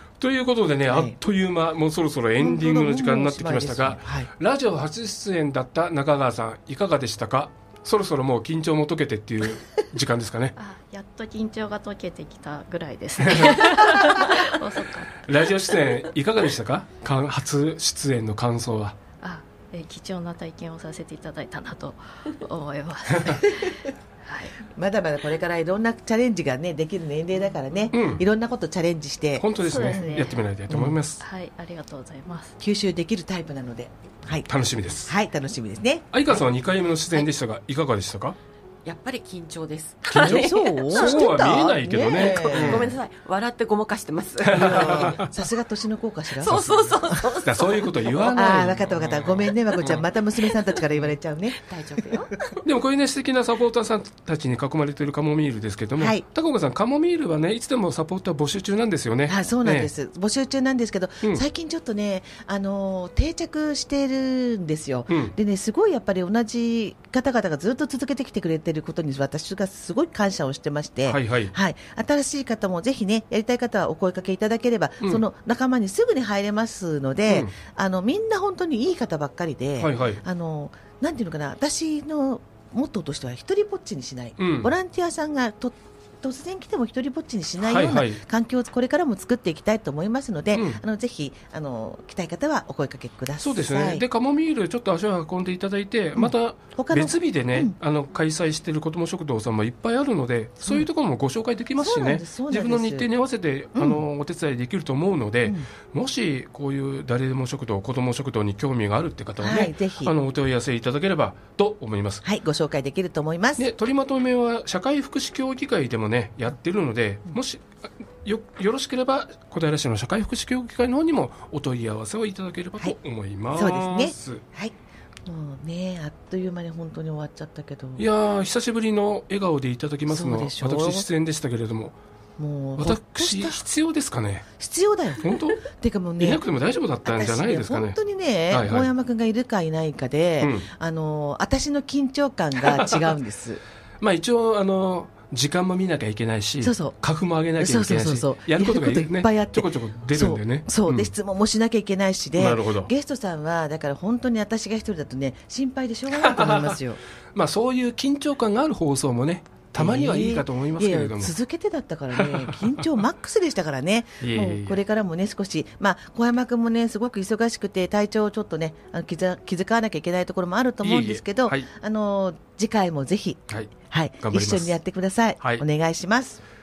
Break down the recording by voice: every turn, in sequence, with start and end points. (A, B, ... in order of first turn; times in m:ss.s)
0:00.2-0:10.5 A
0:00.9-0:01.2 B
0:02.4-0:04.3 B
0:10.6-0:15.3 C
0:13.3-0:14.0 A
0:15.2-0:19.0 A
0:19.2-0:24.5 C
0:23.4-0:23.7 B
0:24.6-0:30.2 B
0:27.9-0:28.2 A
0:29.4-0:31.2 A
0:29.6-0:30.4 C
0:30.7-0:31.0 B
0:31.2-0:32.6 C
0:32.6-0:34.5 B
0:34.5-0:35.1 A
0:35.0-0:36.4 B
0:36.1-0:38.4 A
0:38.8-0:45.3 D
0:40.1-0:42.9 B
0:40.1-0:42.9 A
0:44.4-0:45.3 A
0:44.5-0:47.4 B
0:46.3-0:48.7 D
0:46.5-0:46.8 A
0:47.4-0:50.0 A
0:48.3-0:52.2 B
0:49.8-0:50.8 D
0:51.5-0:52.6 D
0:52.6-0:59.9 A
0:56.0-0:56.2 B
0:59.2-1:34.0 B
1:05.1-1:05.3 A
1:11.1-1:11.5 A
1:19.8-1:20.2 A
1:24.4-1:24.7 A
1:27.6-1:28.2 A
1:30.5-1:30.8 A
1:33.4-1:52.2 A
1:36.2-1:37.8 B
1:40.6-1:40.9 B
1:41.8-1:43.1 B
1:43.7-1:44.0 B
1:49.4-1:50.1 B
1:52.2-1:53.7 B
1:53.6-2:04.4 A
2:03.5-2:08.0 B
2:08.0-2:12.0 A
2:10.1-2:11.1 B
2:12.4-2:13.6 B
2:12.8-2:14.5 A
2:14.6-2:16.4 B
2:15.2-2:15.6 A
2:16.2-2:17.9 A
2:17.0-2:23.6 B
2:18.5-2:18.9 A
2:20.4-2:20.7 A
2:24.0-2:31.1 A
2:26.6-2:27.0 B
2:27.6-2:37.0 B
2:32.3-2:32.9 A
2:36.2-2:36.8 A
2:37.3-2:41.3 A
2:39.8-2:56.4 B
2:42.2-2:42.7 A
2:44.2-2:44.8 A
2:50.8-2:51.7 A
2:54.2-2:54.8 A